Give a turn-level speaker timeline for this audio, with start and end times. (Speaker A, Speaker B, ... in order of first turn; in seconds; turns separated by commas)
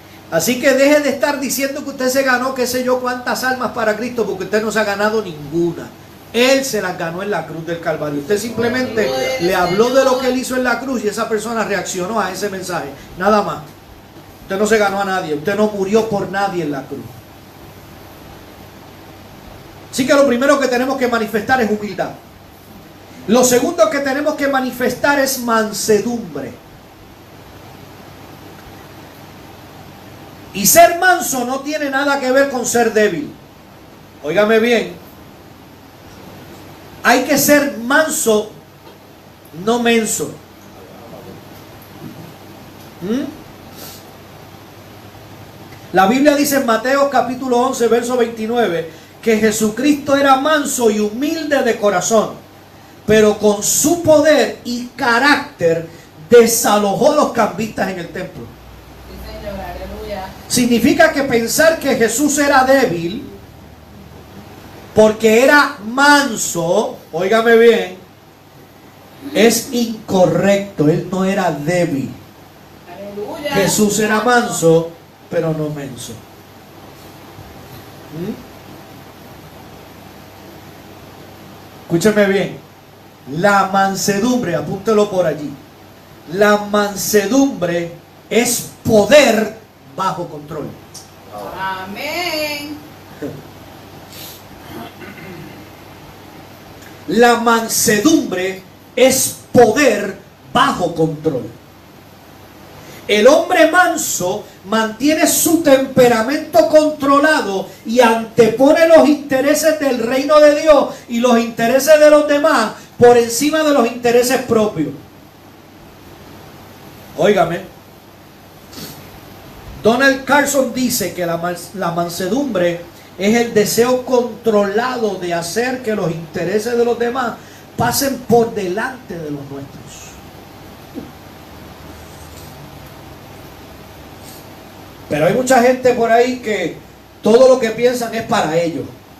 Speaker A: 0.3-13.6, Speaker B: 8.5-10.3, Speaker A: 14.4-17.1, Speaker A: 19.9-22.1, Speaker A: 23.3-26.6, Speaker A: 30.5-33.4, Speaker A: 34.2-35.0, Speaker A: 37.0-38.5, Speaker A: 39.5-40.4, Speaker A: 43.0-43.3, Speaker A: 45.9-52.4, Speaker A: 53.1-58.5, Speaker B: 59.1-60.3, Speaker A: 60.5-63.3, Speaker A: 64.9-68.0, Speaker A: 69.3-72.2, Speaker B: 72.9-74.6, Speaker A: 73.5-76.2, Speaker A: 78.1-78.4, Speaker A: 81.9-82.6, Speaker A: 83.3-85.6, Speaker A: 86.3-90.8, Speaker B: 91.4-92.8, Speaker A: 97.1-101.5, Speaker A: 103.1-115.0, Speaker A: 117.2-117.7, Speaker A: 119.8-130.2, Speaker A: 135.1-138.9